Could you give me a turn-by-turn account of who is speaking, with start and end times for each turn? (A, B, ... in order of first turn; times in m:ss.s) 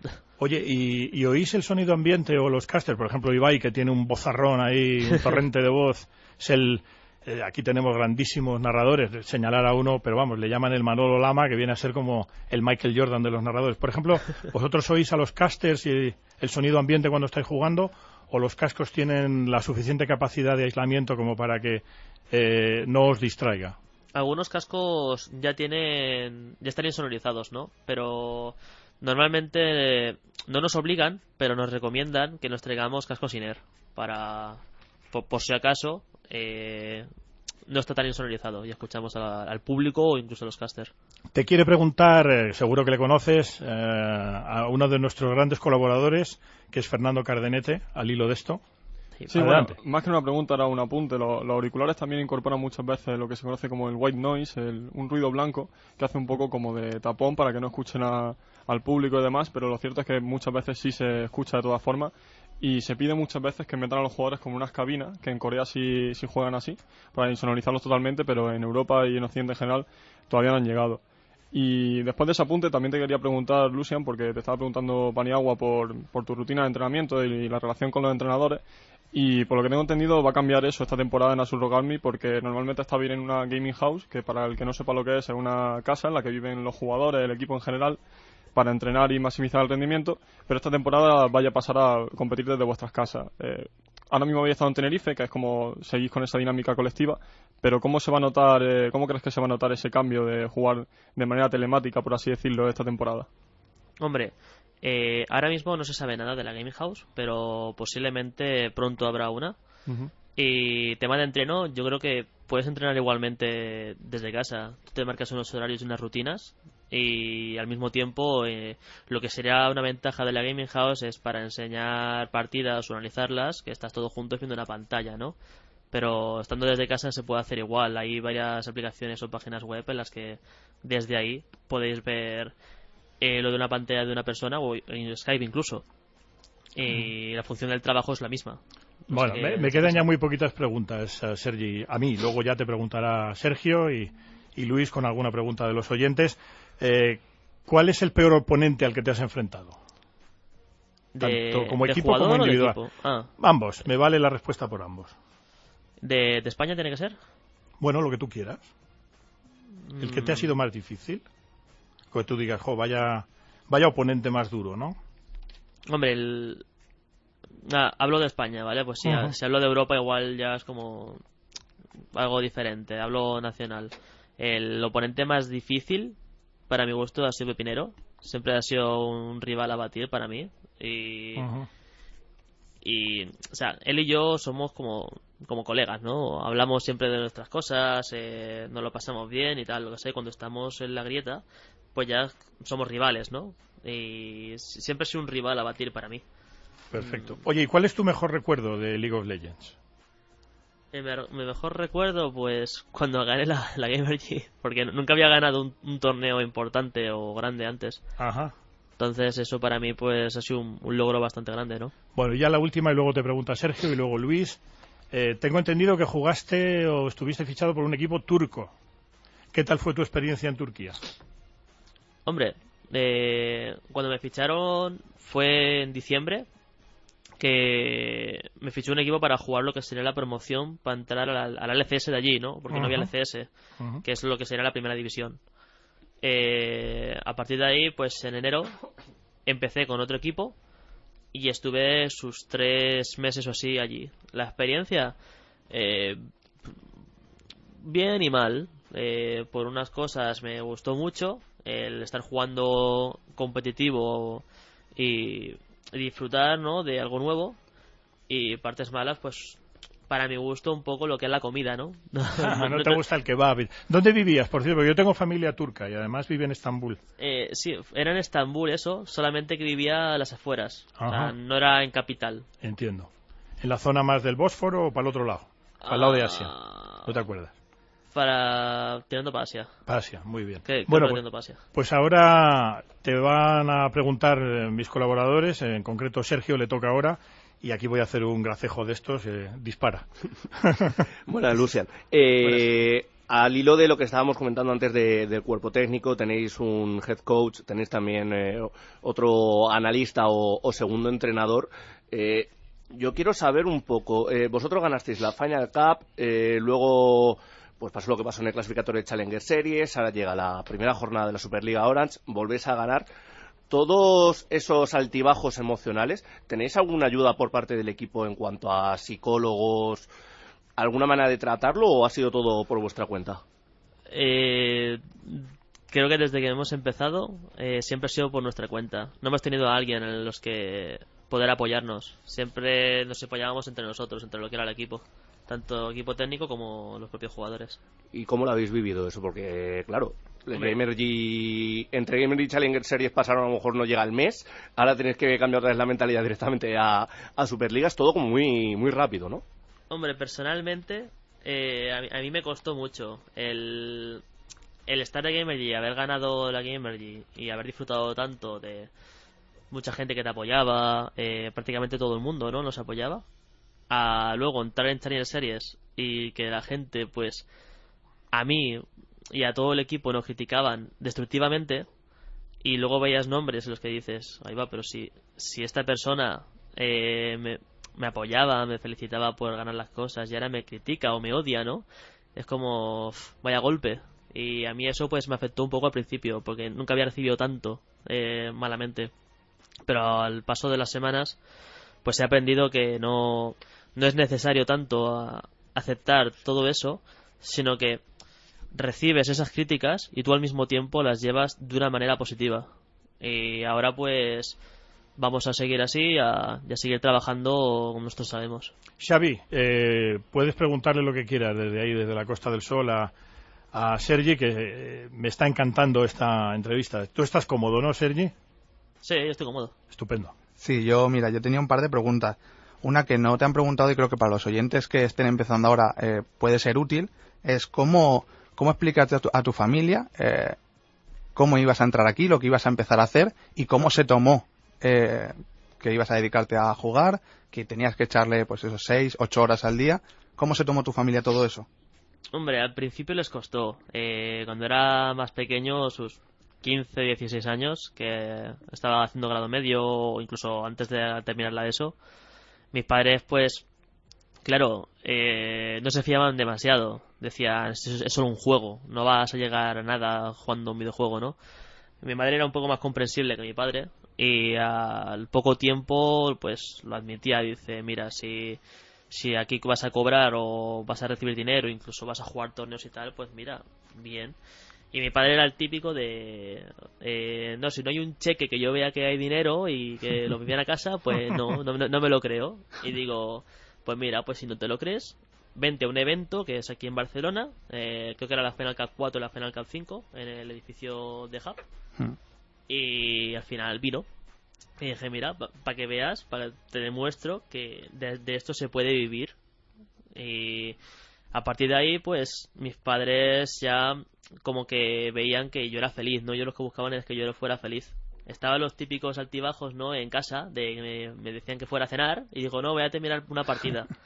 0:00.4-0:23.8 A
0:24.1-0:34.6 B
0:35.1-0:37.1 B
0:37.7-0:40.9 B
0:41.3-0:48.6 A
0:49.3-1:11.0 C
0:49.3-0:49.7 A
1:11.5-1:28.0 C
1:28.5-1:43.3 C
1:44.0-1:49.6 B
1:49.9-1:50.1 C
1:50.4-2:05.4 B
2:05.9-2:12.5 B
2:13.2-2:15.8 B
2:16.7-2:20.1 B
2:19.1-2:29.8 A
2:31.1-2:33.3 B
2:31.2-2:32.8 A
2:33.4-2:35.1 A
2:36.0-2:37.2 B
2:37.8-2:38.7 A
2:39.9-2:40.5 B
2:40.0-2:41.2 A
2:42.1-2:45.0 A
2:45.9-2:46.6 B
2:47.6-2:51.2 B
2:49.0-2:49.3 A
2:52.1-2:56.1 B
2:56.7-3:01.5 B
3:01.4-3:01.7 A
3:02.8-3:11.4 B
3:11.9-3:16.2 B
3:16.9-3:19.7 A
3:16.9-3:17.4 B
3:20.9-3:28.0 B
3:28.2-3:28.5 A
3:29.0-3:31.9 B
3:32.1-3:34.6 A
3:35.1-3:38.7 A
3:39.5-3:41.0 A
3:42.2-3:46.4 B
3:47.4-3:53.5 B
3:52.7-3:53.1 A
3:54.0-3:55.4 B
3:56.2-3:58.7 B
3:59.5-4:00.5 B
4:01.3-4:05.1 B
4:05.7-4:06.2 B
4:07.8-4:14.4 B
4:15.0-4:17.6 B
4:18.3-4:23.0 B
4:22.4-4:27.0 A
4:27.2-4:32.4 B
4:31.0-4:31.3 A
4:32.6-4:33.1 A
4:33.6-4:36.5 A
4:35.8-4:37.1 B
4:37.0-4:37.5 A
4:38.1-4:39.7 B
4:39.9-4:41.2 A
4:40.6-4:41.6 B
4:41.7-4:51.0 A
4:51.3-5:13.1 D
5:13.7-5:20.1 D
5:20.8-5:23.4 D
5:24.1-5:37.8 B
5:38.1-5:49.4 D
5:40.5-5:40.8 B
5:49.9-5:54.2 B
5:54.9-5:58.9 B
5:59.7-6:03.2 B
6:03.9-6:07.4 B
6:08.3-6:11.8 B
6:12.6-6:29.1 B
6:29.9-6:31.4 B
6:32.0-6:38.0 B
6:38.7-6:42.7 B
6:43.2-6:44.6 B
6:45.2-6:48.7 B
6:49.0-6:53.1 A
6:53.7-6:58.3 A
6:59.0-6:59.7 B
6:59.9-7:00.3 A
7:00.6-7:10.6 E
7:11.4-7:21.7 E
7:22.3-7:31.9 B
7:32.7-7:33.6 B
7:34.4-7:41.4 B
7:42.0-7:48.6 B
7:49.1-7:54.4 B
7:54.9-8:11.6 B
8:12.7-8:14.1 B
8:14.8-8:19.3 B
8:20.1-8:20.8 B
8:21.3-8:33.9 B